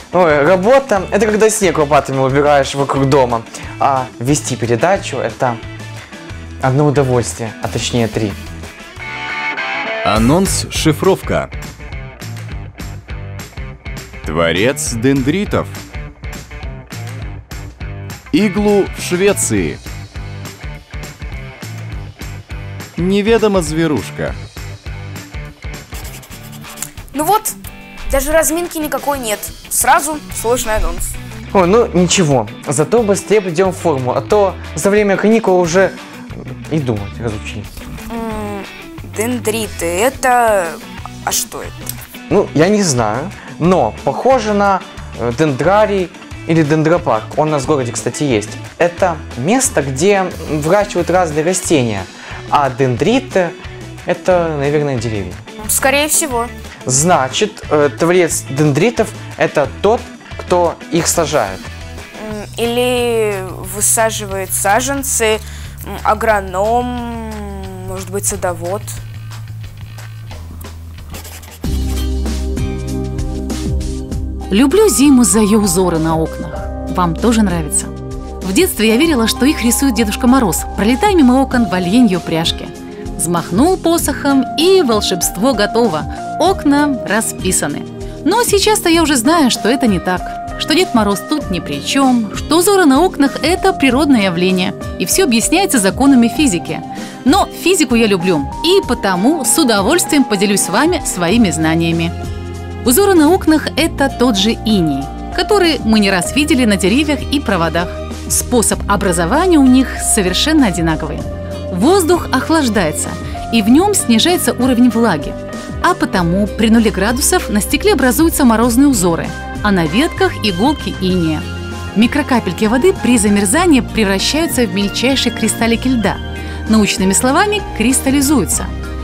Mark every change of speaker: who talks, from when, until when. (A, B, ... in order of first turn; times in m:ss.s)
0:00.1-0:05.6 A
0:06.6-0:08.4 A
0:10.0-0:11.5 B
0:14.2-0:15.8 B
0:18.3-0:19.8 B
0:23.0-0:24.4 B
0:27.1-0:27.6 C
0:28.1-0:31.1 C
0:31.5-0:36.0 A
0:36.7-0:37.7 A
0:38.1-0:41.7 C
0:42.3-0:55.4 A
0:55.6-0:56.5 C
0:56.8-1:01.7 A
1:02.1-1:09.0 C
1:14.5-1:42.1 D
1:42.8-2:08.7 D